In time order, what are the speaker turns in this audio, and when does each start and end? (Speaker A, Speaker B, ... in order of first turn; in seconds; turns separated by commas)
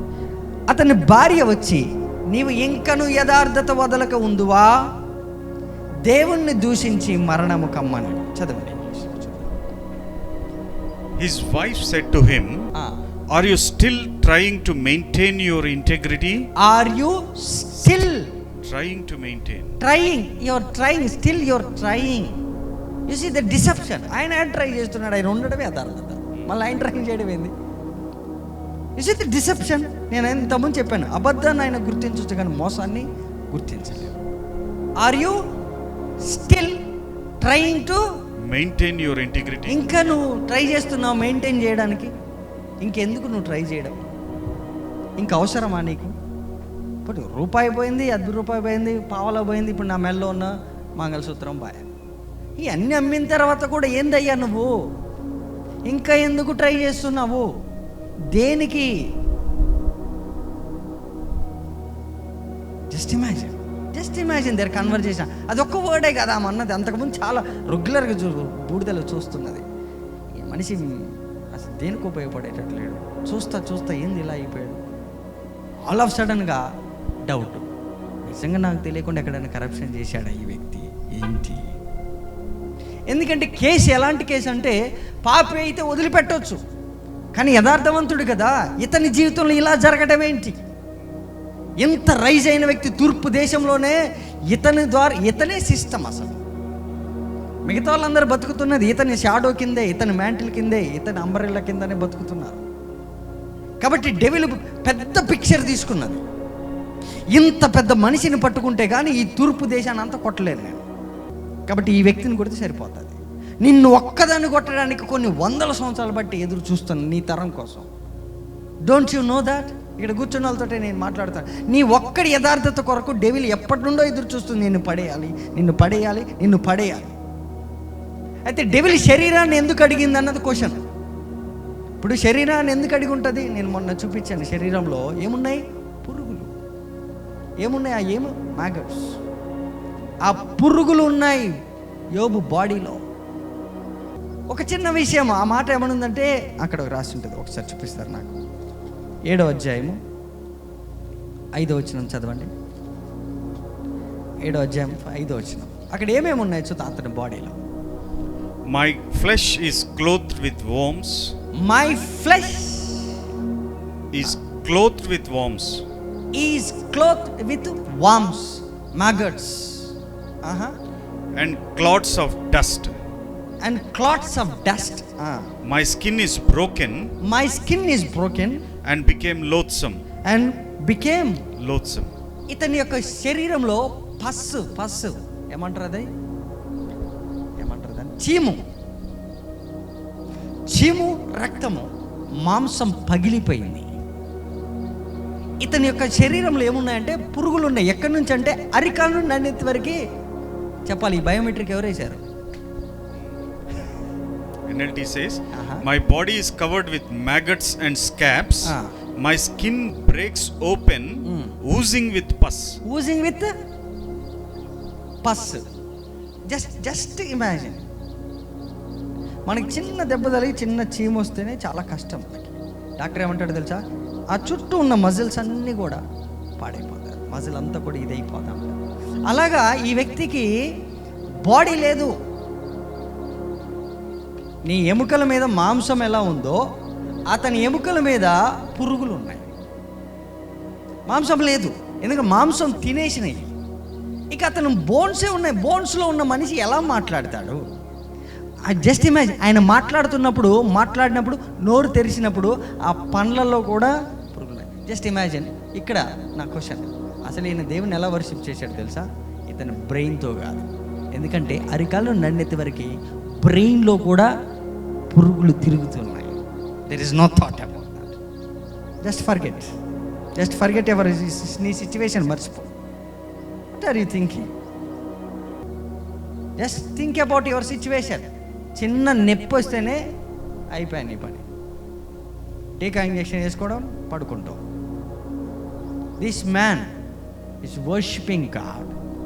Speaker A: 0.7-4.7, Speaker A: 6.0-9.5, Speaker B: 11.2-12.7, Speaker B: 13.3-16.5, Speaker A: 16.6-18.3, Speaker B: 18.6-19.7, Speaker A: 19.8-22.4, Speaker A: 23.1-27.5, Speaker A: 29.0-34.2, Speaker A: 35.0-35.4, Speaker A: 36.2-36.8, Speaker A: 37.4-38.0, Speaker B: 38.5-39.9, Speaker A: 39.7-42.1, Speaker A: 42.8-44.0, Speaker A: 45.2-46.1, Speaker A: 47.0-51.9, Speaker A: 52.6-54.7, Speaker A: 55.9-57.5, Speaker A: 58.3-58.9, Speaker A: 62.9-69.6, Speaker A: 70.4-74.8, Speaker A: 75.9-76.6, Speaker A: 77.3-77.7, Speaker A: 78.2-81.8, Speaker A: 83.1-86.6, Speaker A: 87.3-90.6, Speaker A: 91.8-94.0, Speaker A: 94.5-96.4, Speaker A: 97.7-102.6, Speaker A: 103.8-106.2, Speaker A: 107.3-110.8, Speaker A: 111.7-117.9, Speaker A: 118.9-127.1, Speaker A: 128.5-130.8, Speaker A: 132.0-136.5, Speaker A: 137.6-139.2, Speaker A: 140.2-141.5, Speaker A: 142.2-143.0, Speaker A: 144.5-148.4, Speaker A: 149.3-150.0, Speaker A: 151.5-152.5, Speaker A: 154.4-157.6, Speaker B: 158.7-161.3, Speaker A: 161.6-163.1, Speaker B: 164.1-165.8, Speaker A: 166.3-169.9, Speaker A: 170.4-170.7, Speaker B: 171.3-172.9, Speaker A: 173.6-175.5, Speaker B: 175.6-177.1, Speaker A: 177.2-178.6, Speaker B: 178.8-180.0, Speaker A: 180.2-181.4, Speaker B: 181.6-182.1, Speaker A: 182.5-186.1, Speaker A: 187.6-188.6, Speaker A: 190.7-191.9, Speaker A: 192.4-193.9, Speaker A: 195.6-200.0, Speaker A: 200.8-202.2, Speaker B: 204.7-212.8, Speaker A: 205.5-205.8, Speaker A: 211.2-211.5, Speaker A: 212.8-213.5, Speaker A: 215.2-215.7, Speaker A: 216.5-217.8, Speaker A: 219.5-226.0, Speaker A: 226.6-228.7, Speaker A: 229.3-230.5, Speaker A: 231.4-232.1, Speaker A: 234.7-236.6, Speaker A: 237.3-239.5, Speaker A: 241.1-243.5, Speaker A: 244.3-247.6, Speaker A: 248.7-264.3, Speaker A: 265.1-268.2, Speaker A: 269.0-269.7, Speaker A: 270.4-272.7, Speaker A: 273.7-274.5, Speaker A: 276.6-280.0, Speaker A: 280.7-281.5, Speaker A: 282.8-284.6, Speaker A: 286.2-286.9, Speaker A: 287.6-288.9